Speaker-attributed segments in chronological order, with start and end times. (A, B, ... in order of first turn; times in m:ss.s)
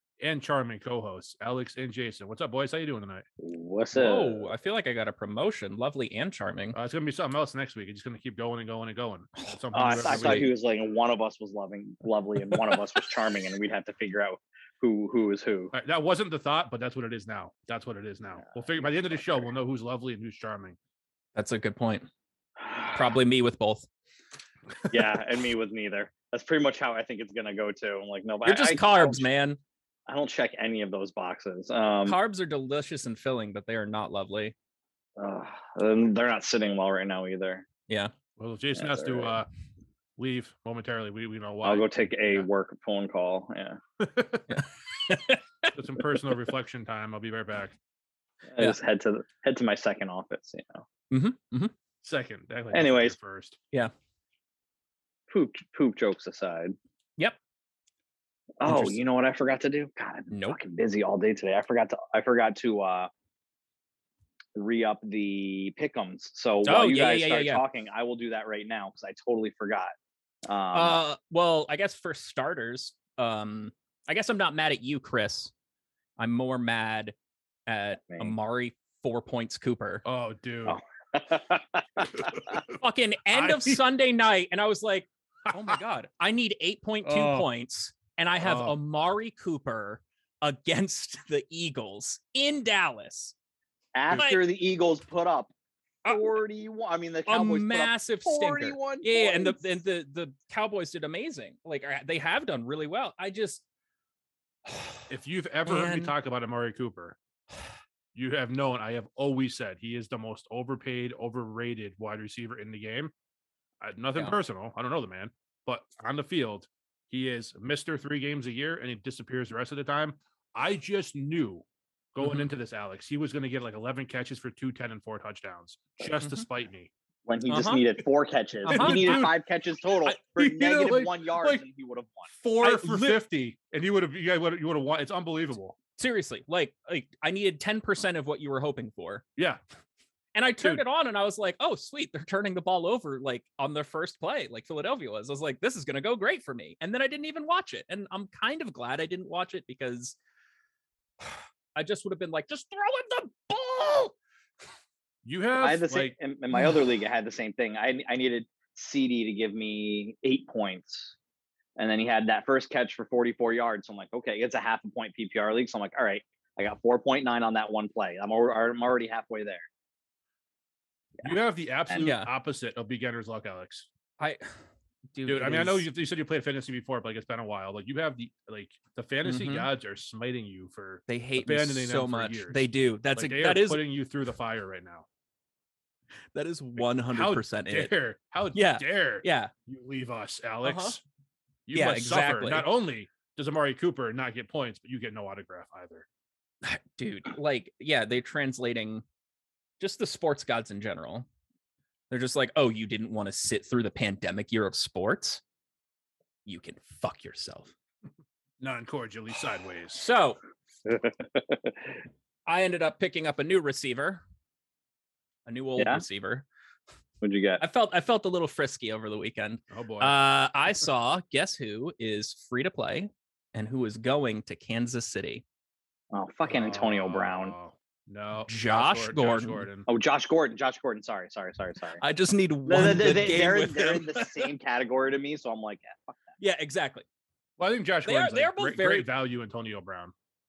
0:00.2-0:03.3 A
0:03.4-0:04.5 B
0:03.9-0:06.8 C
0:06.7-0:10.5 A
0:09.7-0:15.7 B
0:10.0-0:10.4 C
0:12.5-0:12.8 C
0:15.7-0:20.8 A
0:18.5-0:19.4 B
0:21.4-0:22.1 C
0:22.6-0:23.2 B
0:22.9-0:23.9 C
0:24.9-0:29.3 B
0:28.4-0:29.6 C
0:30.1-0:32.2 B
0:32.0-0:34.6 C
0:35.2-0:37.7 B
0:38.4-0:39.5 A
0:38.8-0:39.3 B
0:40.2-0:42.5 A
0:41.6-0:43.8 B
0:44.0-0:44.5 A
0:44.5-0:45.7 C
0:45.7-0:47.8 A
0:48.5-0:50.9 B
0:51.1-0:51.7 C
0:52.0-0:53.6 A
0:52.7-0:53.2 B
0:55.3-0:56.8 B
0:58.6-1:03.1 B
0:58.6-0:59.0 C
1:00.3-1:00.6 C
1:04.6-1:09.9 B
1:06.6-1:07.6 C
1:10.4-1:11.0 B
1:10.7-1:15.5 C
1:16.2-1:17.2 C
1:17.7-1:20.0 C
1:18.1-1:18.4 B
1:20.0-1:20.8 A
1:20.7-1:22.6 B
1:22.2-1:22.8 A
1:22.7-1:33.3 C
1:23.3-1:23.8 A
1:27.0-1:27.5 A
1:28.4-1:28.8 A
1:34.0-1:35.5 B
1:34.1-1:34.4 C
1:36.0-1:39.8 B
1:37.3-1:43.6 C
1:44.7-1:45.0 C
1:45.1-1:47.2 A
1:45.7-1:46.1 C
1:48.2-1:53.1 A
1:53.8-2:06.9 A
2:02.2-2:02.5 C
2:06.2-2:06.4 C
2:07.3-2:12.3 B
2:07.5-2:07.8 C
2:08.6-2:09.4 A
2:08.7-2:09.3 C
2:10.0-2:11.6 A
2:12.3-2:15.8 A
2:12.6-2:13.2 C
2:16.0-2:19.2 C
2:20.4-2:30.2 C
2:31.2-2:34.1 C
2:35.2-2:36.2 A
2:35.6-2:41.1 B
2:41.8-2:49.7 B
2:51.2-2:53.9 A
2:52.0-2:52.3 C
2:54.2-2:54.5 C
2:55.1-2:55.8 C
2:55.2-3:05.1 A
2:59.2-2:59.7 C
3:01.1-3:03.8 C
3:06.3-3:07.9 C
3:06.8-3:11.0 A
3:08.6-3:09.5 C
3:10.6-3:11.0 C
3:11.7-3:16.1 A
3:11.7-3:12.7 C
3:16.6-3:19.0 C
3:19.8-3:21.3 C
3:22.1-3:25.4 C
3:26.5-3:27.7 C
3:28.6-3:30.1 A
3:29.9-3:30.4 C
3:30.9-3:31.8 B
3:32.5-3:34.2 C
3:35.5-3:36.4 C
3:35.8-3:36.0 B
3:37.2-3:37.6 B
3:37.6-3:45.4 C
3:39.7-3:40.2 A
3:46.1-3:47.5 B
3:46.5-3:49.9 A
3:48.5-3:49.7 C
3:49.9-3:52.0 B
3:52.0-3:54.5 C
3:52.7-3:56.4 B
3:56.4-3:57.0 C
3:57.6-4:00.1 A
3:58.0-3:59.1 C